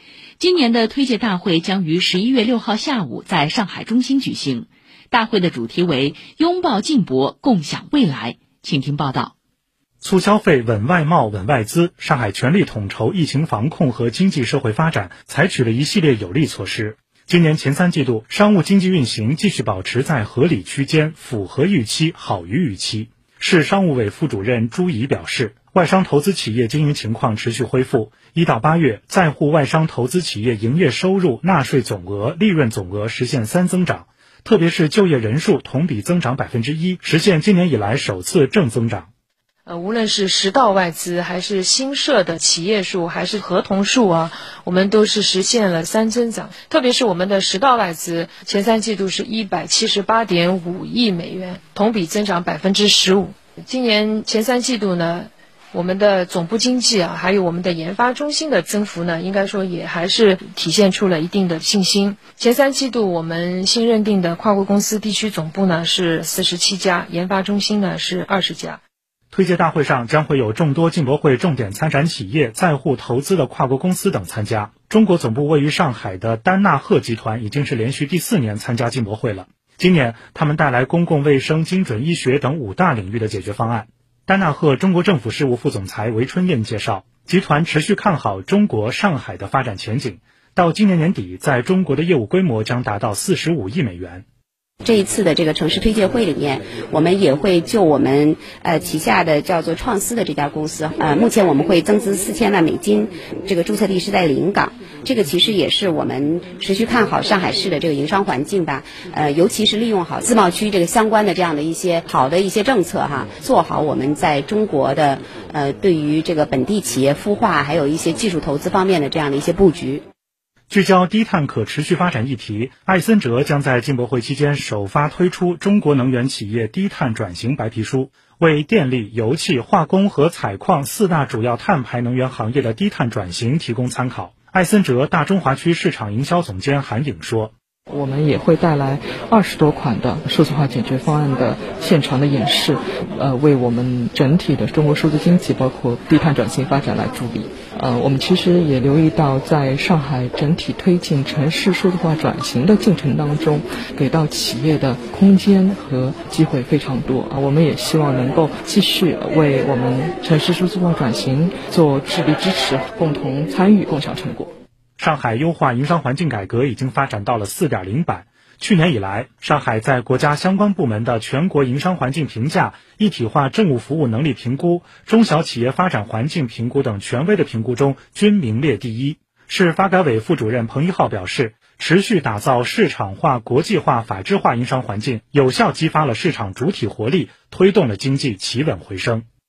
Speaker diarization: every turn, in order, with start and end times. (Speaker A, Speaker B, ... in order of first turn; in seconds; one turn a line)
Speaker A: 0.4-9.3
Speaker B: 10.0-39.1
Speaker C: 39.7-68.8
Speaker B: 69.3-94.2
Speaker D: 94.8-120.0
Speaker B: 120.7-137.5
Speaker E: 137.9-164.5
Speaker B: 165.0-189.2